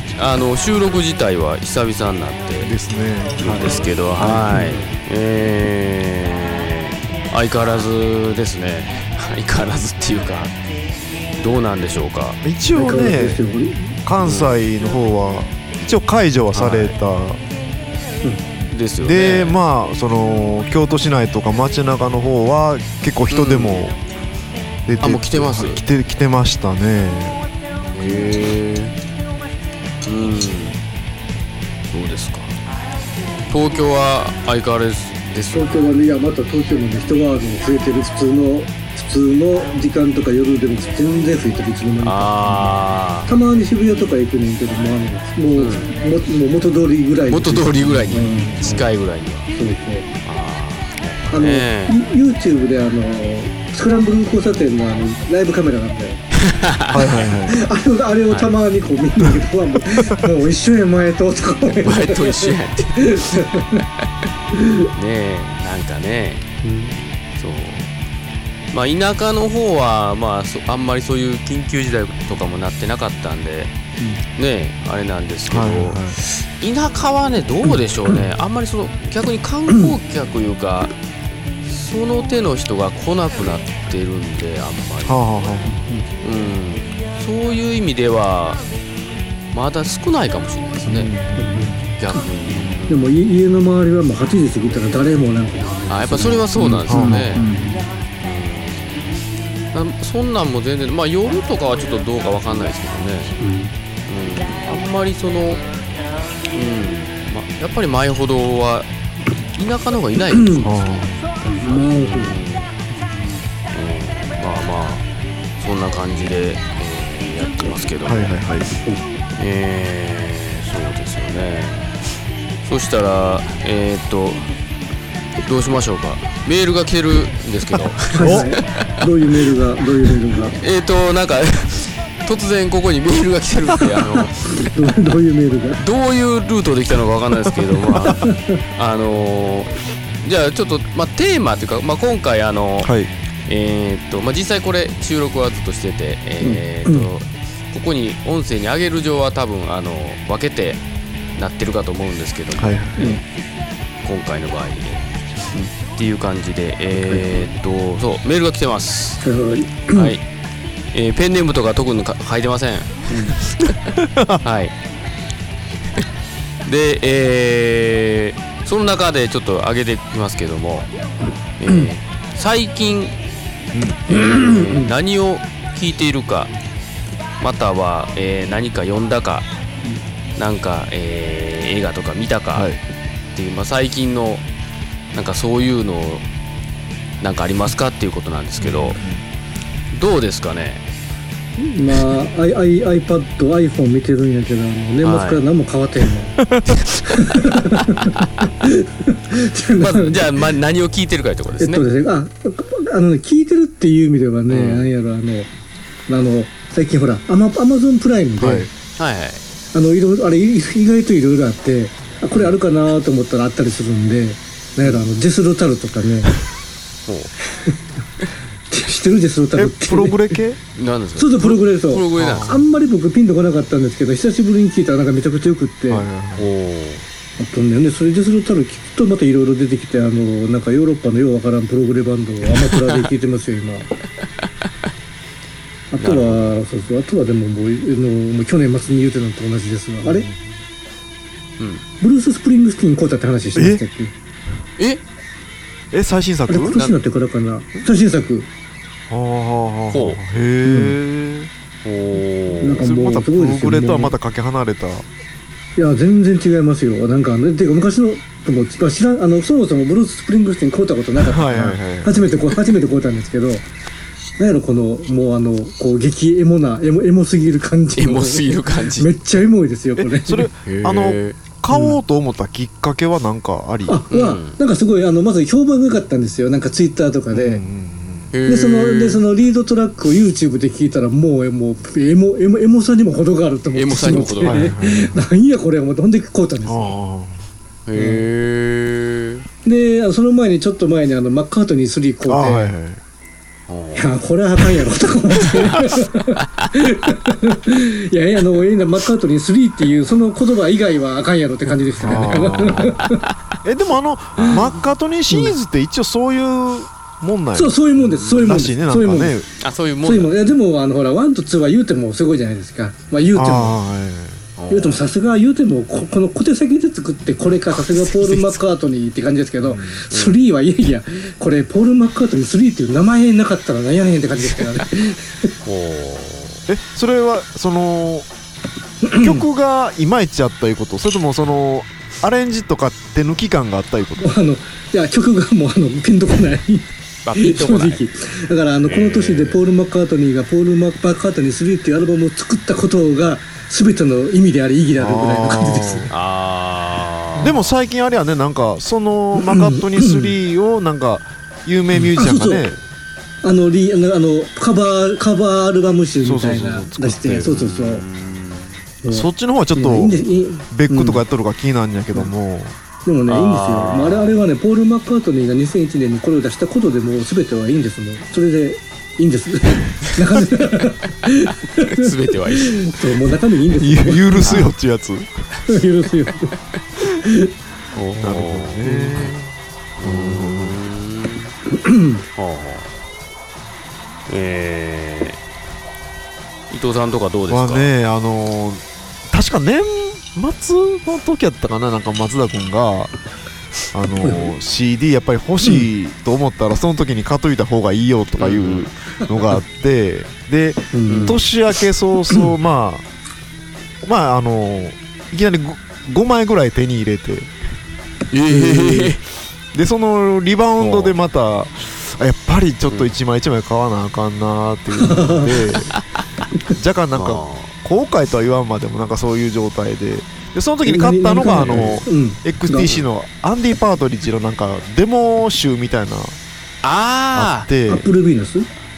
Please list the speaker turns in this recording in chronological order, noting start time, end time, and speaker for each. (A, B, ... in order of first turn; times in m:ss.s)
0:00.1-0:02.7 A
0:02.6-0:03.8 B
0:03.4-0:10.5 A
0:04.2-0:04.9 C
0:11.4-0:12.4 A
0:12.4-0:13.4 B
0:12.7-0:13.9 C
0:14.0-0:17.4 B
0:14.2-0:14.6 A
0:16.5-0:16.9 A
0:18.7-0:19.6 A
0:19.0-0:24.0 B
0:23.3-0:23.9 A
0:24.8-0:27.4 B
0:25.0-0:25.8 A
0:27.9-0:29.0 A
0:30.0-0:30.8 A
0:31.9-0:32.6 A
0:33.5-0:35.9 A
0:35.5-0:42.7 C
0:42.0-0:43.3 A
0:43.2-0:48.9 C
0:45.6-0:45.9 A
0:47.3-0:49.5 A
0:49.5-0:50.1 C
0:50.2-0:52.0 A
0:51.3-0:56.2 C
0:56.4-0:57.3 A
0:56.9-0:57.7 B
0:57.5-1:03.8 C
0:58.3-0:58.6 A
1:01.8-1:03.8 A
1:04.5-1:04.9 C
1:04.8-1:06.5 A
1:06.6-1:07.0 C
1:07.4-1:07.9 A
1:08.7-1:13.7 A
1:14.3-1:20.9 A
1:15.5-1:16.2 B
1:17.6-1:18.2 C
1:19.7-1:19.9 C
1:21.6-1:25.6 A
1:25.0-1:25.9 B
1:25.6-1:26.0 C
1:26.2-1:28.6 A
1:29.5-1:31.1 A
1:30.8-1:31.8 B
1:31.4-1:32.2 C
1:32.0-1:33.0 A
1:32.9-1:37.8 C
1:35.9-1:37.5 A
1:36.9-1:37.3 B
1:38.2-1:39.2 A
1:39.7-1:43.4 A
1:43.4-1:43.7 C
1:44.0-1:45.6 A
1:46.5-1:48.9 A
1:49.6-1:50.8 A
1:50.3-1:50.6 C
1:50.6-1:51.2 B
1:51.4-1:52.4 C
1:51.6-1:52.7 A
1:53.7-1:55.0 A
1:55.6-1:58.3 A
1:58.0-1:58.7 B
1:59.4-2:02.0 A
2:02.6-2:04.5 A
2:05.4-2:09.6 A
2:08.1-2:10.6 C
2:08.2-2:08.5 B
2:10.5-2:14.7 A
2:14.2-2:15.8 C
2:15.8-2:22.9 A
2:17.5-2:18.2 B
2:18.1-2:18.6 C
2:22.8-2:23.1 B
2:23.5-2:30.8 A
2:26.4-2:27.1 C
2:31.4-2:33.2 A
2:32.6-2:33.2 B
2:34.0-2:35.2 A
2:35.8-2:39.2 A
2:37.1-2:37.5 C
2:39.2-2:40.1 C
2:39.9-2:40.2 A
2:40.9-2:43.9 A
2:43.9-2:44.4 B
2:44.4-2:44.7 A
2:46.6-2:50.9 A
2:51.6-2:53.1 A
2:53.7-2:54.0 B
2:54.1-2:56.5 A
2:54.1-2:54.9 C
2:57.4-2:59.5 A
3:00.3-3:02.7 A
3:02.5-3:02.8 B
3:03.3-3:04.4 A
3:05.1-3:06.2 A
3:07.2-3:09.0 A
3:08.6-3:09.2 B
3:09.9-3:10.8 A
3:11.6-3:16.4 C
3:15.0-3:15.4 A
3:16.4-3:16.8 B
3:17.1-3:20.2 C
3:17.1-3:17.3 A
3:18.0-3:18.5 A
3:19.8-3:21.8 A
3:21.6-3:25.5 C
3:24.5-3:24.9 A
3:26.1-3:28.7 C
3:28.4-3:28.7 B
3:28.9-3:29.4 A
3:29.7-3:36.3 C
3:37.1-3:37.3 A
3:38.7-3:40.4 C
3:39.6-3:40.6 B
3:40.7-3:42.6 A
3:41.2-3:46.0 C
3:42.2-3:42.6 B
3:45.9-3:46.5 B
3:46.4-3:47.1 A
3:47.4-3:53.9 C
3:55.9-4:00.3 C
3:56.0-3:56.6 A
4:00.0-4:00.4 B
4:01.6-4:01.8 A
4:02.0-4:04.1 C
4:03.5-4:03.8 B
4:05.9-4:06.8 B
4:06.5-4:08.5 C
4:09.1-4:11.5 B
4:09.9-4:10.2 A
4:10.6-4:11.0 C
4:11.8-4:12.8 A
4:12.6-4:14.1 C
4:12.8-4:15.0 B
4:15.8-4:23.7 C
4:21.2-4:22.3 B
4:24.4-4:30.5 C
4:28.0-4:29.1 A
4:30.0-4:34.0 B
4:30.6-4:31.4 A
4:31.7-4:32.0 C
4:33.9-4:37.6 C
4:34.1-4:34.6 A
4:37.3-4:38.3 B
4:38.3-4:39.2 A
4:38.5-4:46.9 C
4:43.7-4:44.7 A
4:44.4-4:45.2 B
4:46.7-4:47.4 B
4:47.8-4:49.4 A
4:47.9-4:48.2 C
4:49.6-4:52.7 C
4:52.3-4:53.0 B
4:53.7-4:54.2 A
4:53.9-5:03.2 C
4:55.7-4:56.7 A
5:02.0-5:03.0 B
5:03.6-5:09.5 B
5:04.4-5:04.7 A
5:07.5-5:09.3 C
5:09.6-5:10.4 A
5:10.0-5:13.8 C
5:13.3-5:14.4 B
5:14.6-5:15.0 A
5:14.7-5:25.5 C
5:17.7-5:18.6 A
5:19.6-5:20.0 B
5:20.1-5:20.4 A
5:25.6-5:26.6 A
5:26.7-5:28.3 B
5:29.0-5:29.4 C
5:29.2-5:34.3 B
5:34.2-5:46.1 C
5:37.2-5:38.0 A
5:38.9-5:39.6 A
5:45.0-5:46.1 B
5:46.1-5:47.7 A
5:47.4-5:52.8 B
5:49.4-5:50.3 C
5:52.2-5:52.7 C
5:53.4-5:58.0 C
5:56.2-5:57.5 B
5:57.2-5:58.7 A
5:59.0-6:01.2 C
5:59.1-6:00.2 B
6:00.7-6:02.8 B
6:03.0-6:14.5 C
6:03.3-6:04.4 A
6:11.8-6:13.1 A
6:13.8-6:15.4 B
6:14.3-6:14.6 A
6:15.6-6:17.5 C
6:17.9-6:19.4 A
6:18.1-6:20.8 B
6:18.8-6:19.1 C
6:20.0-6:21.5 A
6:21.7-6:22.2 C
6:22.4-6:22.9 A
6:24.3-6:25.4 A
6:26.7-6:27.9 A
6:27.5-6:33.1 B
6:33.9-6:43.0 B
6:34.2-6:34.5 C
6:38.4-6:38.9 A
6:40.9-6:41.4 C
6:41.1-6:41.4 A
6:44.0-6:47.5 B
6:48.3-6:49.2 A
6:48.5-6:49.2 C
6:49.7-6:55.9 B
6:50.8-6:51.2 A
6:55.0-6:55.6 C
6:56.7-7:06.4 B
6:57.1-6:57.7 A
7:00.8-7:02.9 C
7:01.5-7:02.0 A
7:02.8-7:03.0 A
7:06.8-7:07.7 A
7:07.3-7:08.1 B
7:07.9-7:08.7 C